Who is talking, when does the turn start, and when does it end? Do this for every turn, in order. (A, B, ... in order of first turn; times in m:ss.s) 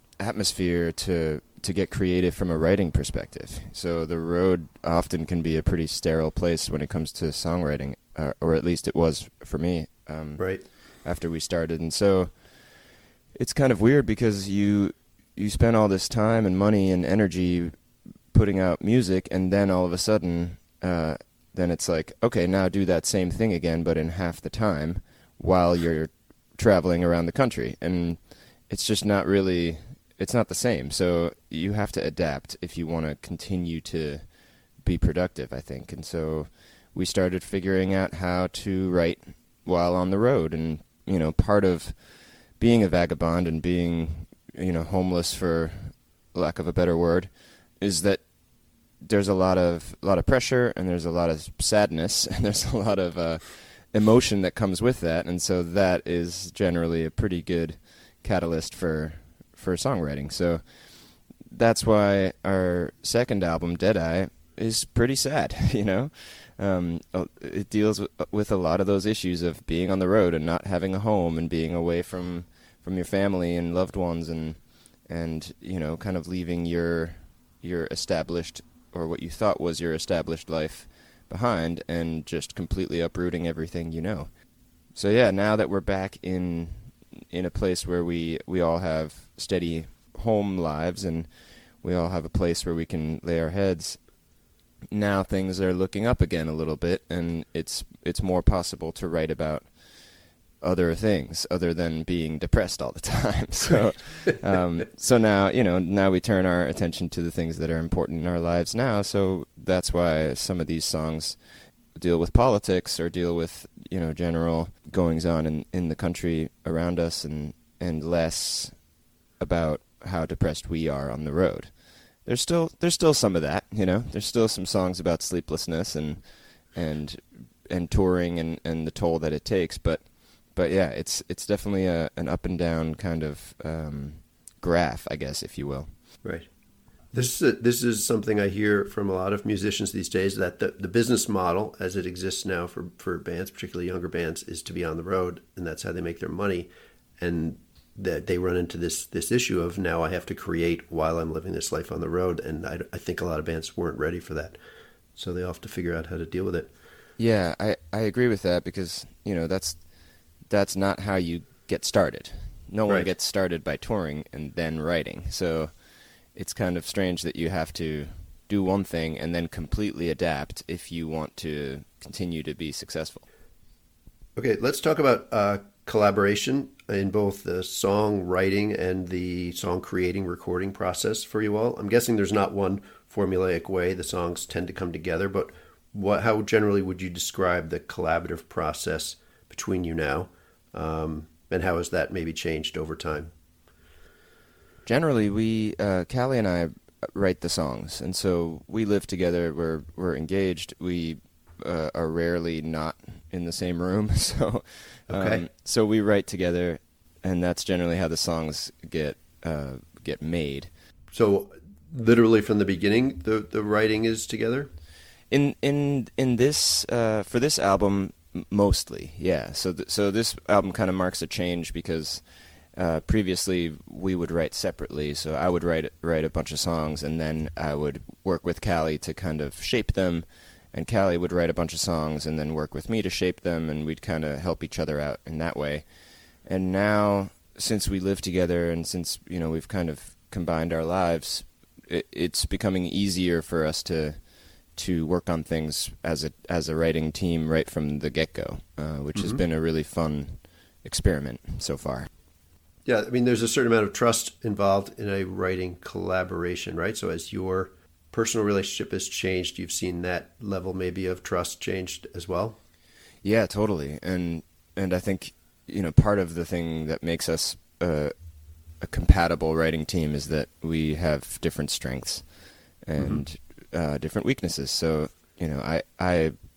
0:00.2-0:12.8 A
0:10.4-0:10.6 B
0:13.3-0:17.8 A
0:18.3-0:34.3 A
0:34.8-0:48.3 A
0:48.9-1:34.1 A
1:34.9-1:51.4 A
1:51.9-1:58.8 A
1:59.4-2:15.9 A
2:17.1-2:34.6 B
2:35.2-2:36.7 B
2:37.2-2:53.3 A
2:54.4-3:13.3 B
3:14.8-3:30.7 A
3:25.1-3:25.4 B
3:31.1-3:34.7 B
3:35.3-3:55.9 A
3:56.4-4:12.1 A
4:09.2-4:09.4 B
4:12.8-4:22.6 B
4:23.2-4:28.1 A
4:28.7-4:36.4 A